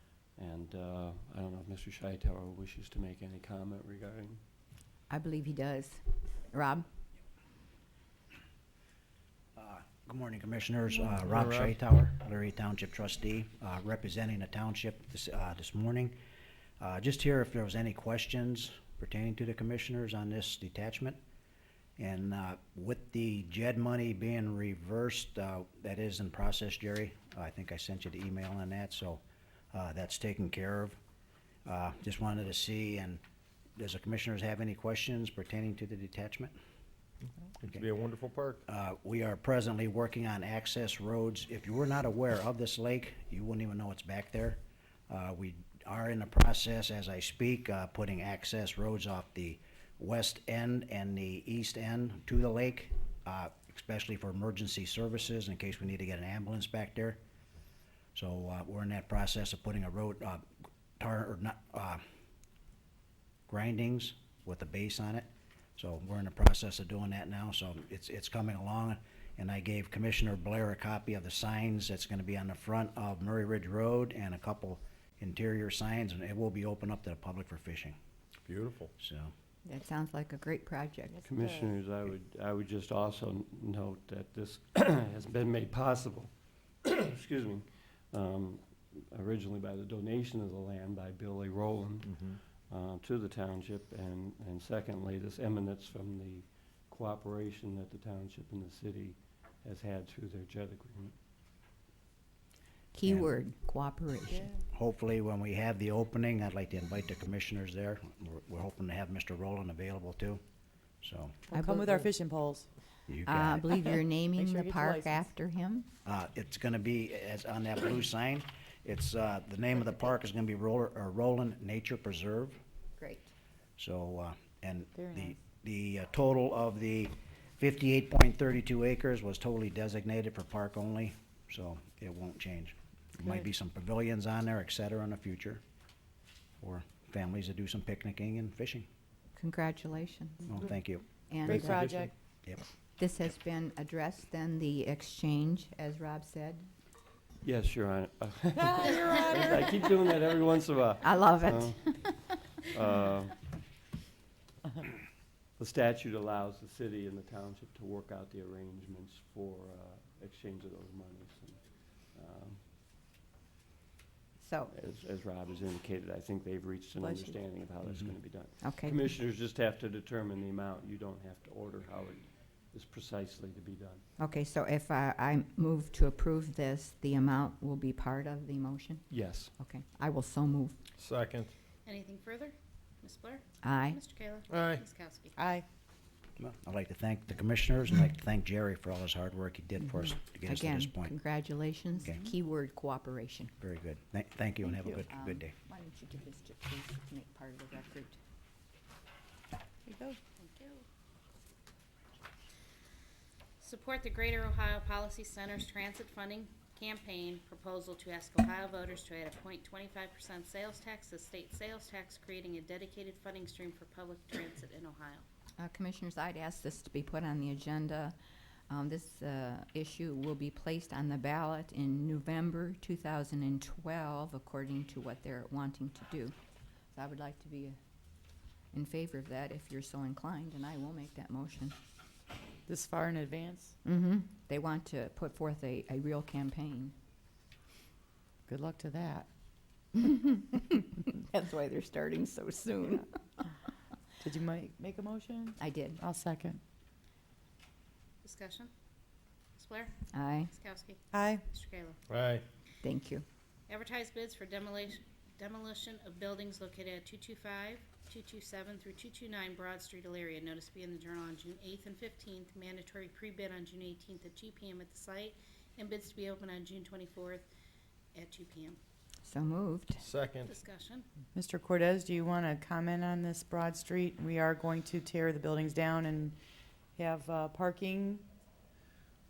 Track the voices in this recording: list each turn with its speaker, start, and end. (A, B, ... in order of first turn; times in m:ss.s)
0:00.4-0:04.4 A
0:05.1-0:06.8 B
0:09.6-0:16.1 C
0:11.0-0:11.7 D
0:16.8-0:21.2 C
0:22.0-0:31.0 C
0:31.6-0:33.2 C
0:33.8-0:36.5 C
0:37.5-0:38.6 D
0:38.7-0:57.2 C
0:58.1-1:00.4 C
1:01.0-1:02.0 C
1:03.5-1:18.0 C
1:18.4-1:18.9 D
1:19.0-1:19.3 C
1:19.6-1:21.2 B
1:21.1-1:21.6 E
1:21.2-1:26.3 A
1:26.8-1:41.2 A
1:42.9-1:44.5 B
1:43.0-1:43.3 C
1:44.3-1:44.6 E
1:44.7-1:50.4 C
1:51.0-1:51.4 C
1:51.5-1:52.7 E
1:51.5-1:52.1 B
1:53.1-1:53.9 C
1:53.2-1:55.9 B
1:54.3-1:55.3 E
1:56.0-2:02.6 C
2:03.0-2:03.3 B
2:03.8-2:15.6 C
2:04.9-2:05.3 E
2:16.6-2:18.8 C
2:19.3-2:20.7 B
2:20.4-2:21.1 C
2:21.3-2:21.8 B
2:21.4-2:22.1 E
2:21.5-2:22.1 D
2:23.0-2:26.6 B
2:27.4-2:33.4 A
2:31.0-2:32.3 B
2:35.6-2:42.6 A
2:44.4-2:44.7 B
2:44.7-2:54.0 A
2:47.0-2:47.3 E
2:48.6-2:49.0 B
2:54.2-3:00.8 B
2:59.1-2:59.5 A
3:01.0-3:01.5 D
3:01.8-3:05.3 F
3:03.6-3:04.0 B
3:04.5-3:04.8 D
3:05.4-3:05.6 E
3:06.4-3:11.2 C
3:10.0-3:13.5 B
3:13.6-3:15.5 C
3:14.9-3:18.2 B
3:19.8-3:20.2 E
3:20.4-3:20.8 F
3:23.6-3:35.2 F
3:35.6-3:38.1 B
3:38.7-3:46.3 B
3:46.9-3:47.8 B
3:48.7-3:51.7 B
3:52.7-3:53.8 E
3:53.8-3:56.9 B
3:58.5-3:59.3 E
4:00.0-4:03.5 B
4:04.2-4:06.6 E
4:05.6-4:06.0 B
4:08.2-4:08.7 F
4:09.6-4:10.0 F
4:10.1-4:10.5 B
4:10.5-4:12.0 F
4:11.1-4:11.4 E
4:12.1-4:12.4 D
4:12.8-4:13.2 B
4:13.7-4:27.5 F
4:28.1-4:28.8 F
4:29.2-4:30.0 B
4:30.0-4:30.5 D
4:30.4-4:31.0 F
4:31.3-4:36.4 E
4:37.0-4:38.2 E